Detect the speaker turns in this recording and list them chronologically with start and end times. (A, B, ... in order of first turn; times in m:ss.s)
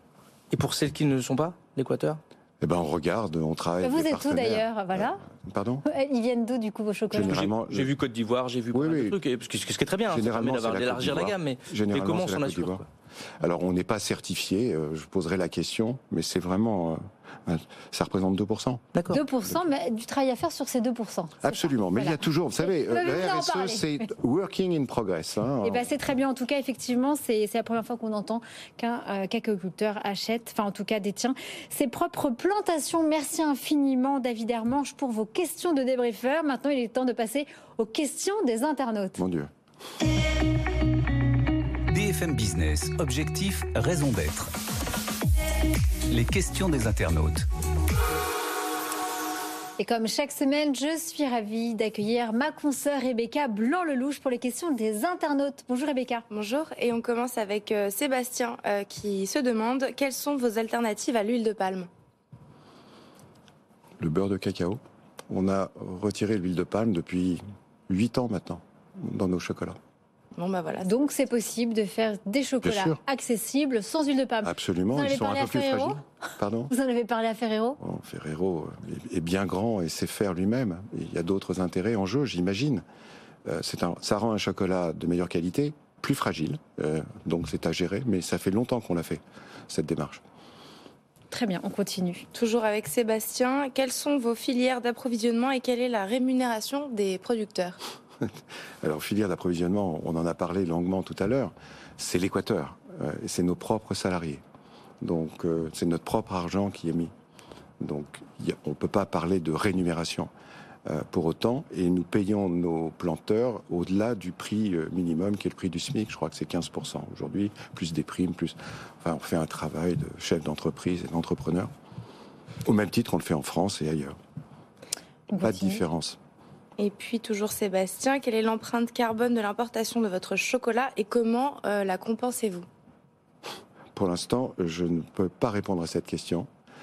0:00.5-0:02.2 A
0:02.6-0:05.8 B
0:03.8-0:05.2 C
0:05.8-0:07.4 C
0:07.1-0:07.9 B
0:07.3-0:12.8 A
0:08.7-0:09.2 B
0:10.1-0:12.8 B
0:13.4-0:18.8 B
0:18.9-0:19.2 A
0:19.1-0:24.0 C
0:21.4-0:25.9 B
0:25.6-0:39.2 C
0:39.2-0:39.5 B
0:41.9-0:44.5 D
0:46.1-0:47.4 D
0:49.8-0:56.2 C
0:56.3-1:01.9 E
1:04.0-1:09.8 B
1:10.4-1:10.9 E
1:10.8-1:16.0 C
1:12.6-1:13.0 B
1:14.4-1:16.7 B
1:16.7-1:17.8 C
1:17.8-1:22.8 B
1:23.4-1:30.2 B
1:31.3-1:32.2 C
1:32.3-1:37.8 E
1:38.8-1:44.4 B
1:45.0-1:47.1 B
1:47.8-1:50.3 B
1:50.8-2:01.7 B
2:02.6-2:04.2 B
2:05.3-2:05.8 C
2:05.4-2:06.2 B
2:06.8-2:12.7 E
2:13.9-2:16.5 B